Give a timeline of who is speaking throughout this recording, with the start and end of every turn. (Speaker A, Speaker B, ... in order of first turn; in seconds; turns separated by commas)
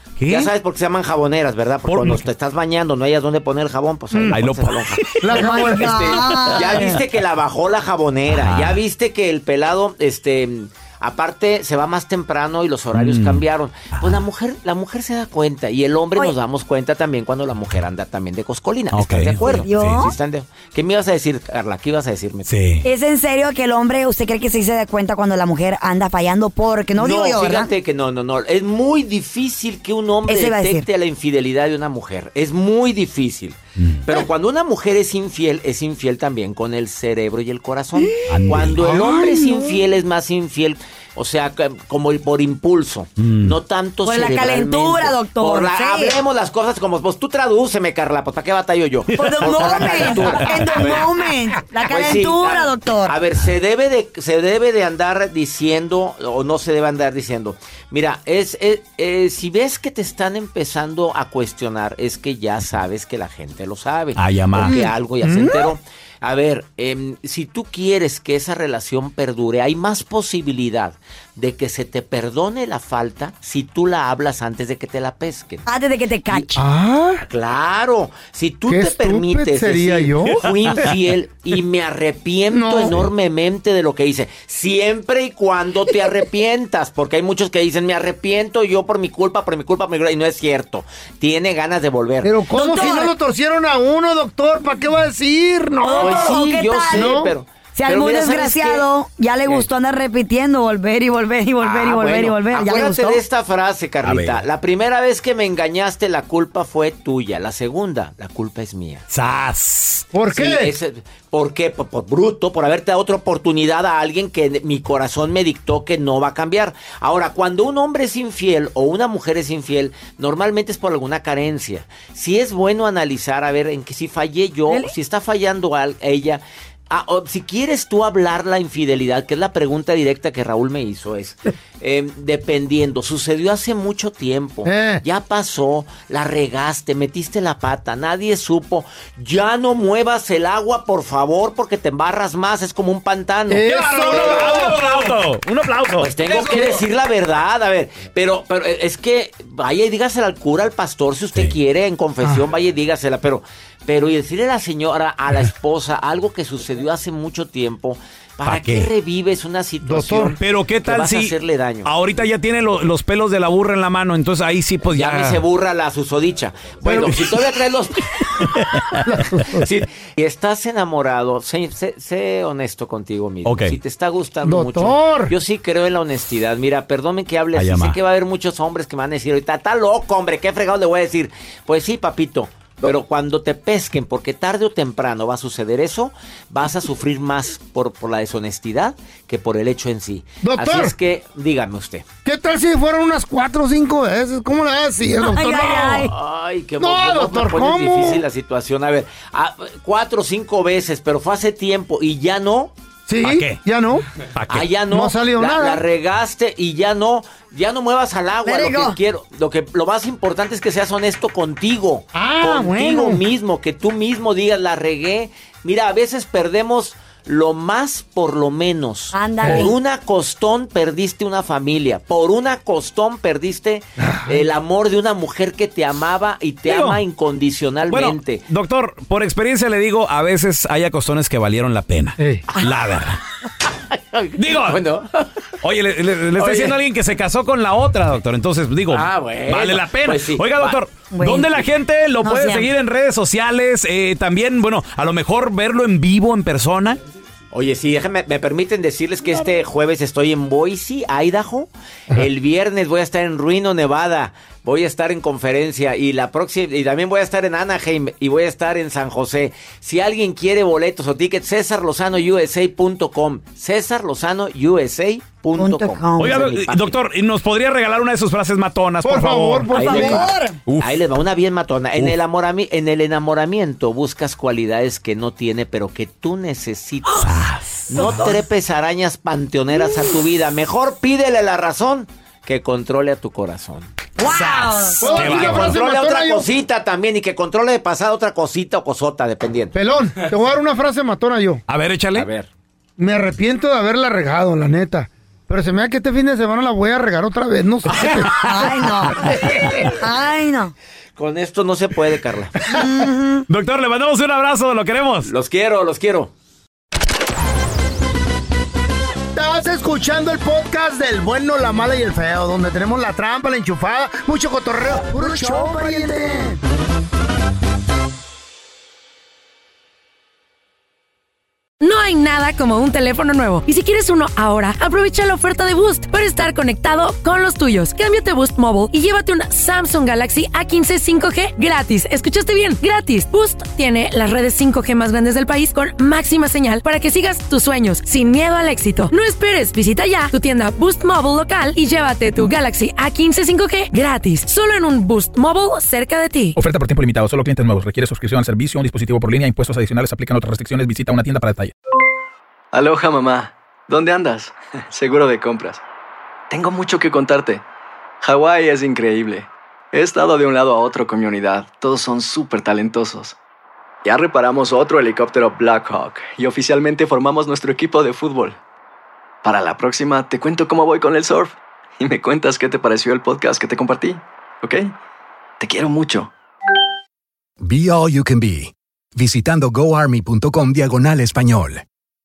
Speaker A: 0.2-0.5, Speaker B: 0.3-22.5, Speaker A: 1.9-2.3, Speaker C: 4.1-4.4, Speaker A: 4.3-5.3, Speaker C: 5.2-6.1, Speaker D: 5.3-6.9, Speaker A: 5.9-7.0, Speaker A: 8.3-8.8, Speaker A: 12.9-14.2, Speaker A: 18.9-20.1, Speaker D: 19.5-20.1, Speaker A: 22.5-22.8, Speaker D: 22.8-27.7, Speaker B: 26.9-75.7, Speaker D: 30.2-30.9, Speaker C: 38.0-39.8, Speaker A: 38.3-38.8, Speaker A: 43.2-43.5, Speaker D: 44.0-46.2, Speaker A: 49.1-50.9, Speaker D: 49.1-53.2, Speaker A: 64.2-64.8, Speaker C: 65.2-65.7, Speaker D: 75.7-76.6, Speaker B: 76.3-76.5, Speaker C: 76.5-77.2, Speaker B: 77.3-92.3, Speaker C: 78.7-80.4, Speaker C: 82.5-83.0, Speaker C: 92.2-96.4, Speaker D: 92.5-93.1, Speaker D: 95.8-103.2, Speaker B: 96.0-98.8, Speaker C: 96.9-97.3, Speaker B: 101.6-109.0, Speaker A: 104.0-104.4, Speaker A: 109.1-110.0, Speaker C: 110.1-110.7, Speaker B: 110.3-144.7, Speaker D: 124.7-124.9, Speaker C: 134.6-135.0, Speaker C: 143.5-145.0, Speaker A: 143.7-146.7, Speaker B: 146.0-161.9, Speaker A: 158.4-158.9, Speaker C: 159.8-160.3, Speaker A: 160.4-161.3, Speaker A: 161.8-165.4, Speaker B: 164.9-168.5, Speaker C: 166.8-167.2, Speaker A: 168.4-169.1, Speaker C: 169.0-169.7, Speaker B: 169.6-192.1, Speaker A: 173.4-173.8, Speaker C: 174.4-175.3, Speaker A: 177.5-178.0, Speaker C: 190.4-190.9, Speaker C: 192.2-196.1, Speaker D: 195.2-196.1, Speaker B: 196.0-202.7, Speaker C: 196.8-198.2, Speaker C: 203.1-204.1, Speaker A: 203.2-203.6, Speaker A: 204.3-204.7, Speaker B: 204.5-228.4, Speaker C: 204.9-205.8, Speaker D: 208.4-209.0, Speaker C: 212.1-213.2, Speaker D: 219.1-219.7, Speaker C: 219.4-219.7, Speaker C: 224.0-224.5, Speaker A: 226.7-227.0, Speaker A: 227.9-233.2, Speaker C: 232.2-232.4, Speaker B: 233.9-235.5, Speaker A: 234.3-234.8, Speaker A: 235.6-247.0, Speaker B: 236.4-236.8, Speaker B: 238.9-240.8, Speaker D: 241.1-241.6, Speaker D: 242.2-242.7, Speaker B: 247.5-266.9, Speaker D: 265.6-266.5, Speaker A: 266.2-271.0, Speaker C: 269.0-270.3, Speaker D: 269.7-270.6, Speaker B: 269.8-283.9, Speaker A: 277.2-278.3, Speaker D: 277.9-278.4, Speaker D: 284.2-285.2, Speaker A: 284.2-285.8, Speaker C: 285.0-286.5, Speaker B: 285.1-289.7, Speaker C: 289.7-291.6, Speaker A: 291.7-292.3, Speaker B: 292.1-292.5, Speaker C: 293.0-298.3, Speaker A: 297.9-299.7, Speaker D: 298.4-299.4, Speaker C: 299.2-299.8, Speaker D: 300.0-300.7, Speaker B: 301.1-302.6, Speaker D: 302.6-303.4, Speaker A: 303.5-305.3, Speaker B: 305.2-306.3, Speaker C: 309.3-316.6, Speaker E: 321.8-346.6, Speaker F: 346.6-351.7, Speaker G: 352.7-355.8, Speaker G: 356.5-357.6, Speaker G: 358.2-363.4, Speaker G: 364.0-368.6, Speaker G: 369.4-374.9, Speaker G: 375.6-376.3, Speaker H: 377.6-381.8